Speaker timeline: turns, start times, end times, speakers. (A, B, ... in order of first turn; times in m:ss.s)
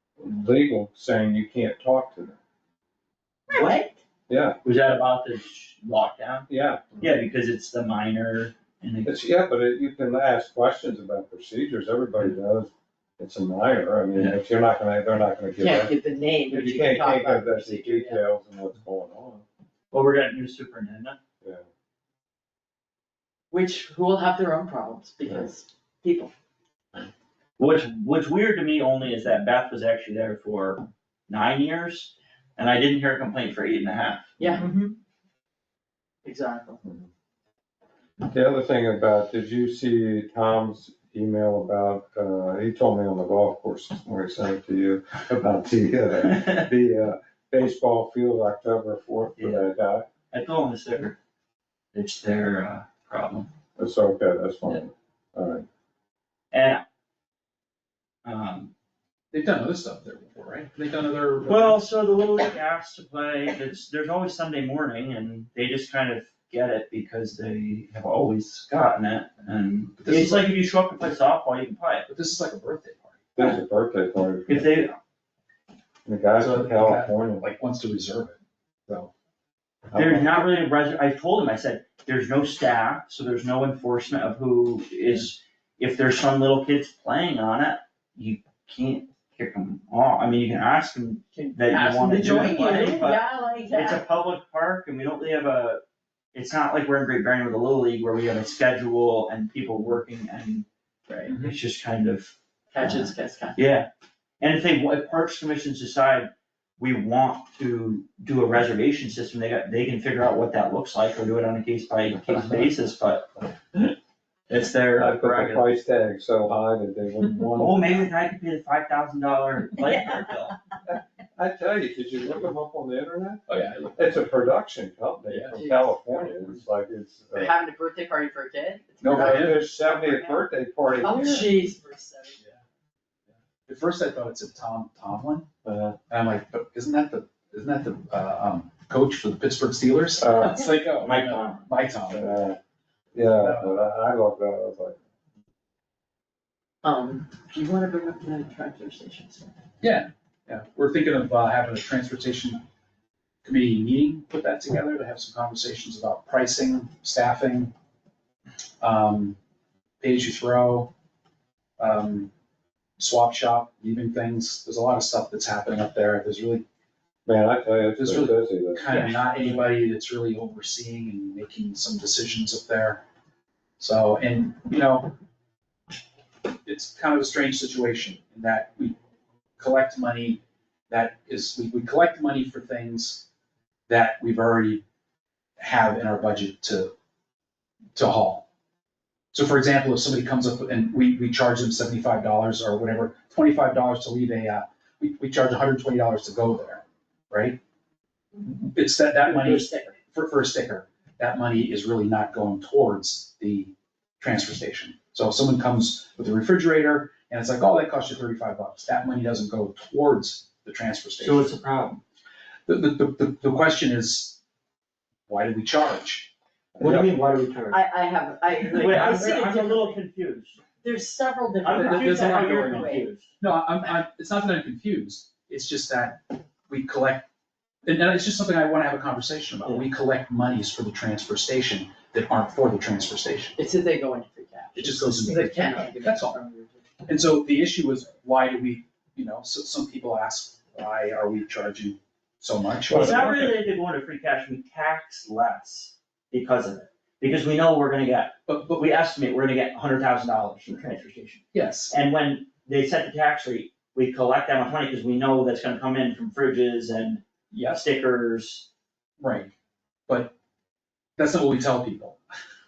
0:00.2-0:02.4 A
0:03.5-0:04.0 B
0:04.3-0:04.6 A
0:04.6-0:06.5 C
0:06.5-0:07.0 A
0:07.0-0:09.2 C
0:09.0-0:15.9 A
0:15.6-0:18.2 B
0:16.5-0:19.4 A
0:19.9-0:21.2 C
0:23.5-0:26.3 B
0:27.6-0:34.4 C
0:34.4-0:34.7 B
0:36.2-0:36.8 B
0:38.3-0:50.1 A
0:46.3-0:46.6 C
0:49.4-0:49.7 C
0:50.3-0:51.2 C
0:51.9-0:53.5 C
0:53.8-0:55.6 A
0:56.5-0:56.8 C
0:58.2-0:58.7 C
0:59.3-1:01.8 D
1:01.5-1:12.1 C
1:10.0-1:10.5 D
1:12.1-1:13.2 D
1:13.4-1:14.8 A
1:14.5-1:15.0 C
1:16.1-1:17.5 A
1:16.4-1:18.4 D
1:19.9-1:20.5 A
1:20.0-1:35.8 C
1:31.4-1:34.0 B
1:36.3-1:40.7 C
1:41.1-1:41.4 B
1:41.3-1:43.9 C
1:42.7-1:43.6 B
1:44.4-1:53.3 C
1:52.1-1:52.7 A
1:54.5-1:55.7 C
1:55.0-1:58.1 A
1:57.6-2:00.6 C
2:00.9-2:03.4 A
2:03.5-2:04.0 D
2:04.0-2:07.5 A
2:05.3-2:05.6 D
2:05.5-2:06.3 B
2:07.3-2:09.7 B
2:09.0-2:09.7 D
2:09.1-2:11.6 A
2:09.7-2:10.4 C
2:11.0-2:12.4 B
2:13.7-2:15.5 D
2:15.6-2:16.0 A
2:16.1-2:22.4 D
2:20.2-2:20.7 A
2:21.0-2:21.7 C
2:22.1-2:22.6 A
2:23.1-2:25.0 A
2:23.2-2:23.8 D
2:26.8-2:29.5 B
2:29.8-2:32.6 D
2:33.4-2:37.7 D
2:38.8-2:39.4 D
2:40.0-2:40.9 D
2:41.8-2:42.3 D
2:43.0-2:46.6 D
2:47.3-2:48.9 A
2:48.0-2:53.0 D
2:53.8-2:55.1 D
2:56.6-2:59.0 D
2:59.6-3:03.3 D
3:03.9-3:04.8 D
3:05.6-3:06.9 D
3:08.0-3:08.5 D
3:09.3-3:17.6 D
3:18.4-3:31.6 D
3:19.2-3:20.0 B
3:31.2-3:32.0 C
3:32.7-3:34.4 D
3:35.3-3:36.3 D
3:36.8-3:37.1 A
3:36.8-3:37.8 C
3:37.7-3:40.0 B
3:38.7-3:40.6 C
3:40.8-3:43.1 B
3:41.6-3:43.3 C
3:41.7-3:47.3 D
3:47.9-3:53.6 D
3:53.6-3:56.9 B
3:54.8-3:56.4 D
3:57.0-4:03.3 D
4:02.9-4:03.5 A
4:02.9-4:18.7 C
4:08.5-4:08.8 D
4:11.5-4:11.9 D
4:17.5-4:17.8 D
4:19.2-4:19.5 D
4:21.2-4:22.2 D